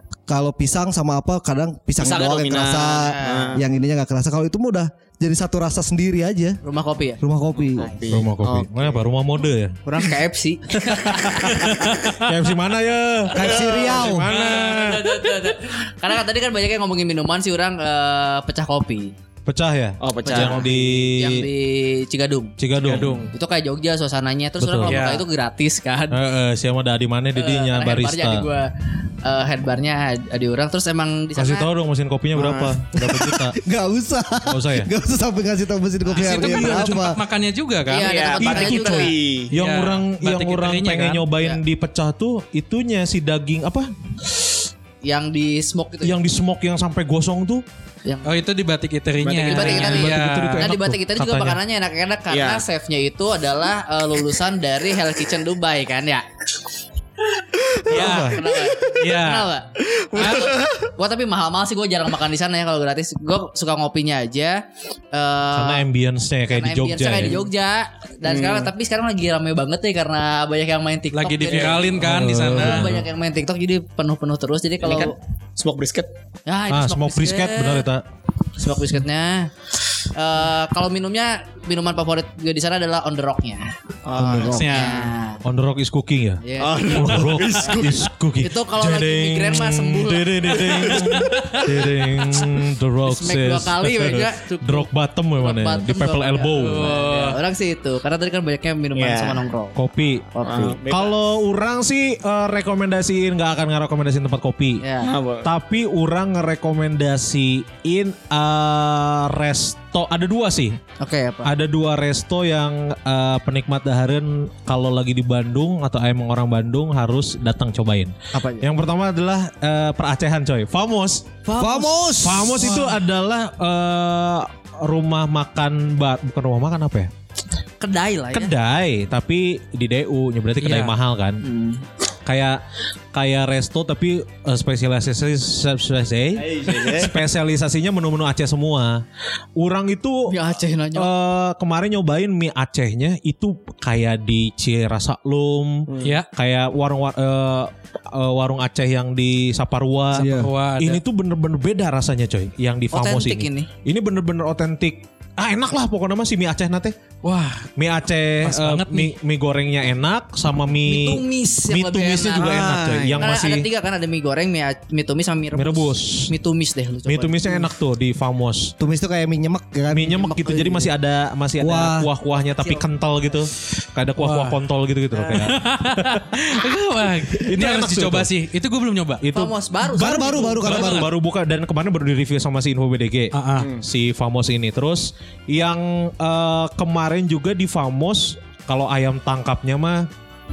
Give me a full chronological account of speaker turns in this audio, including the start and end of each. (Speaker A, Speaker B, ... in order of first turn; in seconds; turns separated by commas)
Speaker A: 0.3-6.6, Speaker B: 2.0-3.6, Speaker C: 2.6-3.5, Speaker C: 6.6-7.2, Speaker A: 7.2-7.9, Speaker B: 7.6-9.1, Speaker C: 7.8-8.2, Speaker D: 8.1-9.8, Speaker C: 9.9-11.8, Speaker B: 11.1-11.5, Speaker D: 11.6-15.2, Speaker A: 13.3-14.3, Speaker B: 13.4-14.1, Speaker C: 14.2-19.1, Speaker D: 19.5-21.5, Speaker B: 20.0-20.7, Speaker C: 20.2-22.6, Speaker D: 22.6-23.3, Speaker E: 22.8-23.3, Speaker C: 23.3-26.2, Speaker D: 24.6-25.0, Speaker E: 24.8-25.2, Speaker D: 26.1-28.5, Speaker C: 27.4-28.7, Speaker C: 29.2-31.7, Speaker D: 31.4-33.6, Speaker B: 32.3-32.8, Speaker A: 33.0-37.2, Speaker D: 34.5-34.9, Speaker E: 36.1-38.1, Speaker C: 36.2-36.5, Speaker C: 37.9-39.1, Speaker B: 38.0-39.5, Speaker D: 38.4-43.9, Speaker E: 39.5-41.2, Speaker C: 45.0-46.2, Speaker D: 46.0-47.6, Speaker C: 48.0-48.3, Speaker E: 48.2-50.7, Speaker C: 49.3-56.2, Speaker D: 49.5-51.6, Speaker B: 52.3-52.6, Speaker B: 57.6-58.2, Speaker E: 57.9-59.5, Speaker C: 57.9-65.8, Speaker D: 57.9-58.4, Speaker B: 59.8-60.9, Speaker E: 60.2-60.5, Speaker D: 65.5-67.4, Speaker C: 66.5-75.2, Speaker B: 68.3-68.7, Speaker E: 71.1-72.9, Speaker B: 71.5-71.9, Speaker D: 72.0-73.0, Speaker B: 74.8-76.1, Speaker C: 76.5-77.9, Speaker D: 76.7-78.0, Speaker C: 78.6-85.4, Speaker B: 84.0-84.7, Speaker E: 84.4-85.1, Speaker D: 85.4-97.0, Speaker C: 86.4-91.3, Speaker B: 86.6-88.1, Speaker E: 90.7-92.4, Speaker C: 93.0-99.8, Speaker E: 96.6-97.4, Speaker B: 99.0-99.4, Speaker D: 99.8-104.8, Speaker C: 100.3-100.8, Speaker B: 100.5-101.2, Speaker C: 104.8-105.1, Speaker B: 105.0-105.5, Speaker D: 105.5-110.8, Speaker C: 111.0-111.5, Speaker D: 111.4-121.4, Speaker C: 118.3-118.7, Speaker C: 121.5-122.1, Speaker A: 121.6-122.7, Speaker D: 122.2-127.1, Speaker E: 122.6-123.0, Speaker C: 127.8-128.5, Speaker D: 128.3-131.4, Speaker E: 130.6-130.9, Speaker C: 131.4-131.8, Speaker D: 132.3-132.6, Speaker D: 133.1-139.0, Speaker B: 136.4-137.1, Speaker D: 139.6-140.4, Speaker C: 140.3-141.1, Speaker D: 140.9-156.9, Speaker B: 145.9-146.1, Speaker E: 146.0-146.3, Speaker A: 150.1-150.5, Speaker E: 150.2-151.0, Speaker C: 152.9-153.7, Speaker E: 157.2-157.7, Speaker D: 157.8-163.7, Speaker E: 158.4-159.1, Speaker C: 160.8-167.7, Speaker B: 162.4-163.3, Speaker D: 165.6-166.3, Speaker D: 167.1-168.7, Speaker A: 168.8-170.3, Speaker D: 169.9-176.3, Speaker C: 170.1-170.9, Speaker A: 171.6-172.1, Speaker C: 172.5-172.9, Speaker E: 174.2-174.6, Speaker C: 175.1-175.5, Speaker E: 175.3-179.2, Speaker D: 177.3-178.3, Speaker D: 179.2-190.1, Speaker C: 179.3-180.7, Speaker A: 179.8-181.1, Speaker E: 180.6-181.1, Speaker E: 183.3-183.7, Speaker B: 183.6-183.8